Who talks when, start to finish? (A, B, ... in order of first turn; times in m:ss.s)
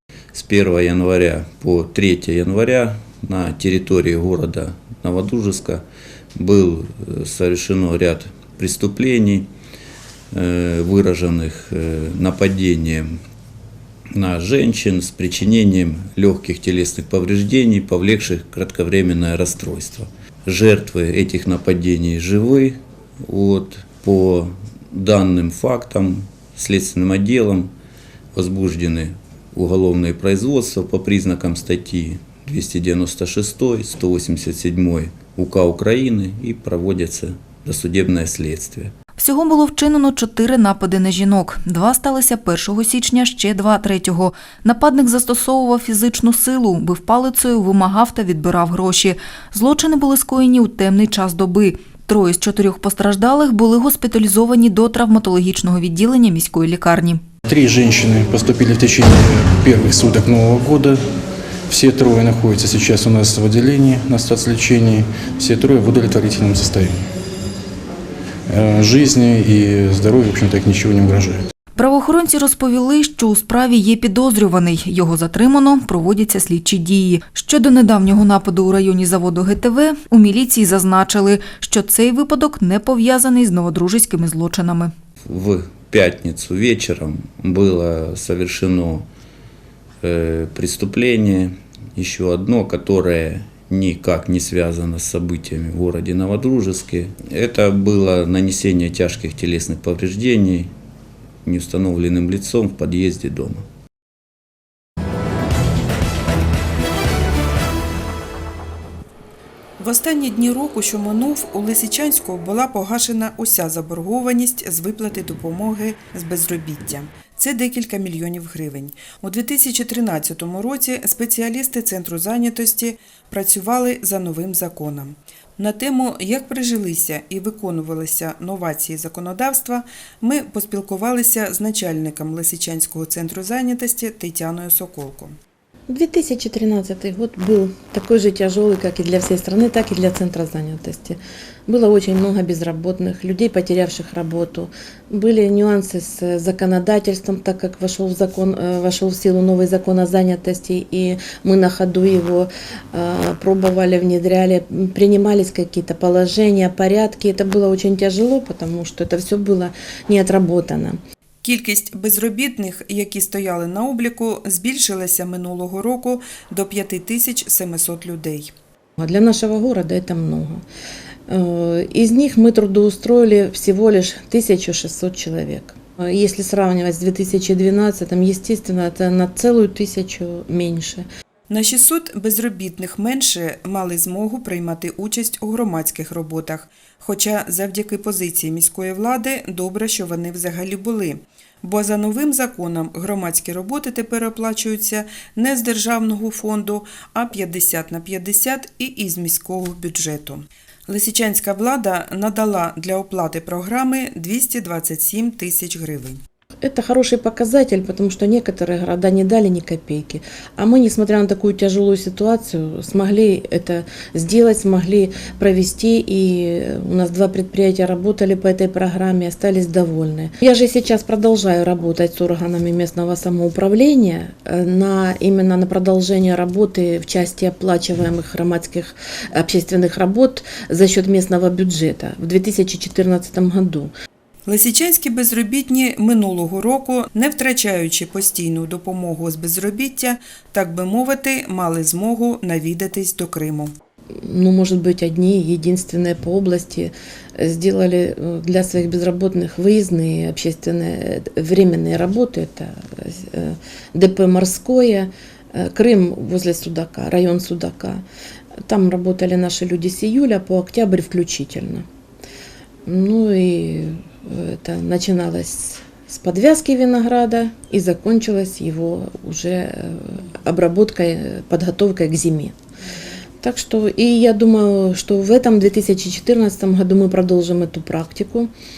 0:00.3-0:05.8 A
0:06.4-0:09.5 A
0:10.3-0:13.2 A
0:14.1-0:27.7 A
0:28.3-0:38.9 A
0:39.2-0:57.2 B
0:57.5-1:01.0 C
1:01.7-1:07.0 C
1:08.5-1:11.4 C
1:11.8-1:24.9 B
1:25.2-1:29.1 A
1:30.0-1:40.7 A
1:41.4-1:43.7 A
1:49.8-2:15.4 D
2:15.9-2:41.0 E
2:41.4-2:48.5 D
2:49.0-2:50.6 E
2:51.3-3:01.0 E
3:01.5-3:26.2 D
3:26.6-3:53.9 E
3:54.5-4:03.7 D
4:04.2-4:18.0 E
4:18.7-4:21.9 E
4:22.8-4:32.5 E
4:33.4-4:38.5 E